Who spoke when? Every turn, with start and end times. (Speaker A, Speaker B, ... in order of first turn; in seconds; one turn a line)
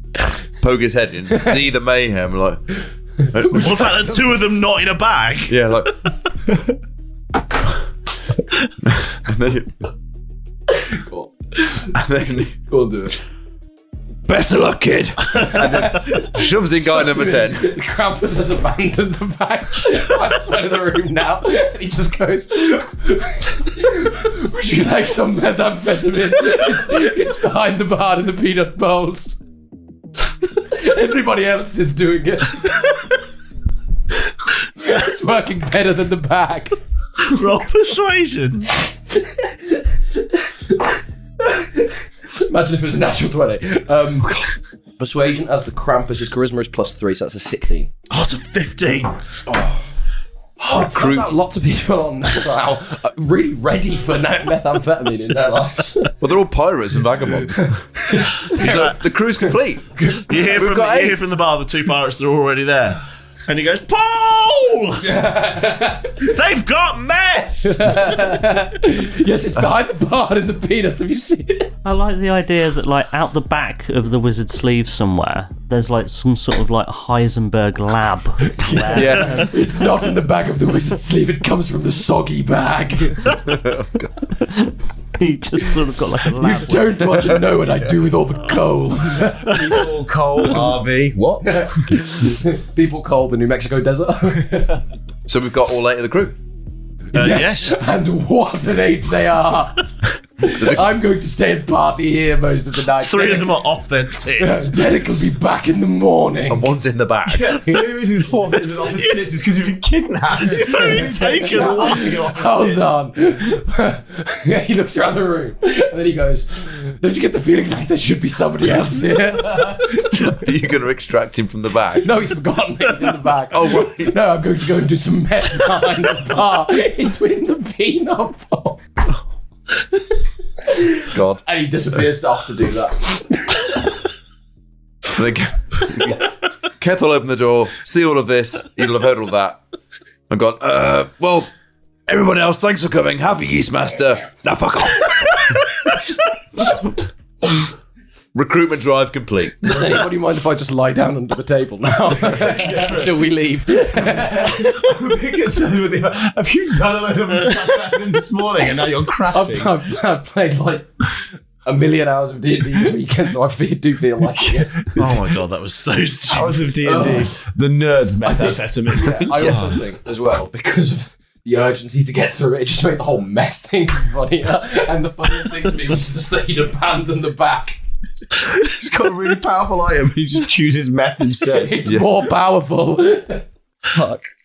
Speaker A: 0.6-4.2
Speaker B: 3.5-6.3
Speaker C: 3.8-4.2
Speaker A: 5.5-6.1
Speaker A: 8.8-9.9
Speaker C: 10.8-12.0
Speaker A: 11.9-12.6
Speaker C: 12.6-13.2
Speaker A: 14.3-17.8
Speaker C: 15.3-29.4
Speaker C: 30.6-33.0
Speaker C: 34.8-36.8
Speaker B: 37.2-38.7
Speaker C: 39.1-40.8
Speaker C: 41.4-44.4
Speaker C: 45.0-47.9
Speaker B: 48.1-49.2
Speaker C: 50.6-56.1
Speaker A: 50.7-51.3
Speaker A: 56.2-61.2
Speaker C: 58.0-58.6
Speaker B: 58.5-59.0
Speaker C: 60.0-60.4
Speaker B: 60.3-65.1
Speaker C: 65.0-66.2
Speaker B: 66.2-68.3
Speaker C: 67.6-71.7
Speaker D: 71.8-79.5
Speaker C: 78.6-83.4
Speaker A: 79.0-79.5
Speaker B: 79.0-79.4
Speaker A: 83.5-84.2
Speaker D: 85.2-87.2
Speaker C: 86.4-89.8
Speaker E: 89.4-91.9
Speaker C: 91.5-94.8
Speaker A: 95.3-96.4
Speaker B: 97.1-97.8
Speaker C: 97.1-99.9
Speaker C: 100.4-103.5
Speaker A: 100.5-100.9
Speaker B: 103.0-104.7
Speaker C: 104.3-106.7
Speaker A: 106.5-107.5
Speaker E: 107.3-113.1
Speaker C: 108.5-108.9
Speaker B: 110.5-112.2
Speaker C: 110.6-119.8
Speaker A: 119.9-122.1
Speaker C: 122.0-128.8
Speaker A: 123.5-124.2
Speaker C: 130.7-133.7
Speaker A: 131.1-131.4
Speaker A: 135.0-139.6
Speaker A: 140.3-141.5
Speaker A: 142.1-145.8
Speaker A: 148.3-149.6
Speaker C: 149.7-154.9
Speaker E: 152.1-153.3
Speaker E: 153.9-159.9
Speaker C: 159.3-164.9
Speaker E: 164.3-165.4
Speaker B: 165.0-166.8
Speaker E: 166.3-169.7
Speaker C: 166.8-167.4
Speaker C: 168.2-177.8
Speaker A: 169.4-169.8
Speaker E: 178.4-182.0
Speaker C: 181.5-183.4
Speaker A: 181.8-182.1
Speaker E: 183.9-184.2